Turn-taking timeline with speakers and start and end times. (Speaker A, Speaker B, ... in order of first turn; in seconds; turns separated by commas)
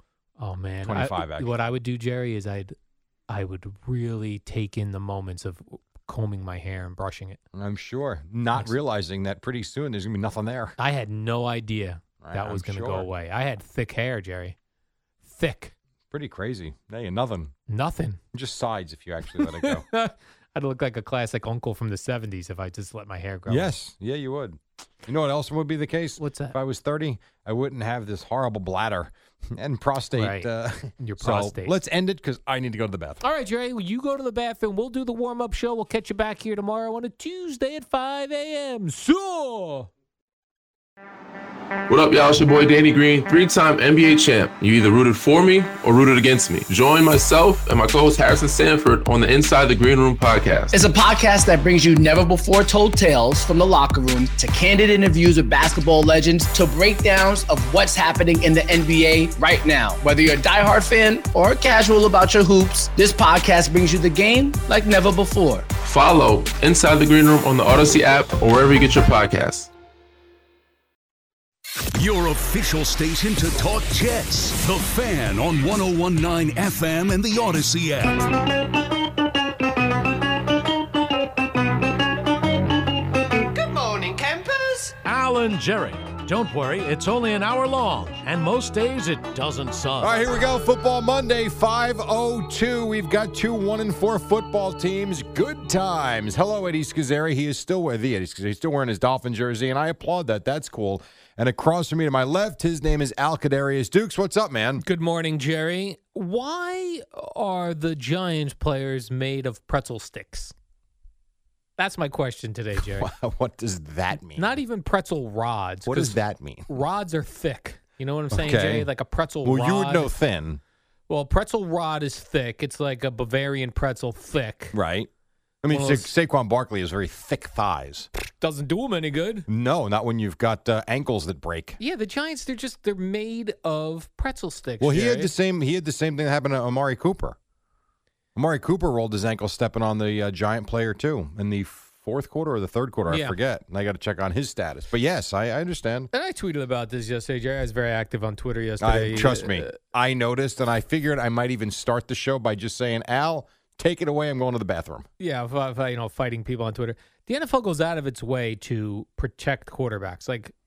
Speaker A: 0.4-2.8, Speaker B: 0.8-1.6, Speaker A: 3.3-7.4, Speaker B: 7.5-10.8, Speaker A: 10.8-14.6, Speaker B: 12.2-13.1, Speaker A: 15.2-15.8, Speaker B: 16.1-17.5, Speaker A: 17.7-18.2, Speaker B: 18.3-19.9, Speaker A: 19.3-23.7, Speaker B: 23.5-33.2, Speaker A: 26.2-26.6, Speaker A: 30.1-31.8, Speaker A: 33.2-39.9, Speaker C: 41.9-50.8, Speaker D: 50.7-65.7, Speaker C: 65.8-69.7, Speaker E: 72.0-78.3, Speaker B: 83.6-84.9, Speaker F: 85.0-90.2, Speaker B: 90.0-104.8, Speaker A: 104.8-110.5, Speaker A: 111.8-113.1, Speaker B: 112.8-114.6, Speaker A: 114.3-120.1, Speaker B: 115.8-116.7, Speaker B: 118.3-118.9, Speaker B: 119.4-120.6, Speaker A: 121.1-124.8, Speaker B: 124.7-125.1, Speaker B: 125.6-128.1, Speaker A: 125.7-126.1, Speaker A: 128.4-129.5, Speaker B: 129.5-131.8, Speaker A: 131.8-135.3, Speaker B: 134.8-137.4, Speaker B: 138.3-146.1, Speaker A: 143.1-143.4, Speaker A: 146.1-149.8, Speaker B: 148.8-155.1, Speaker A: 155.2-160.5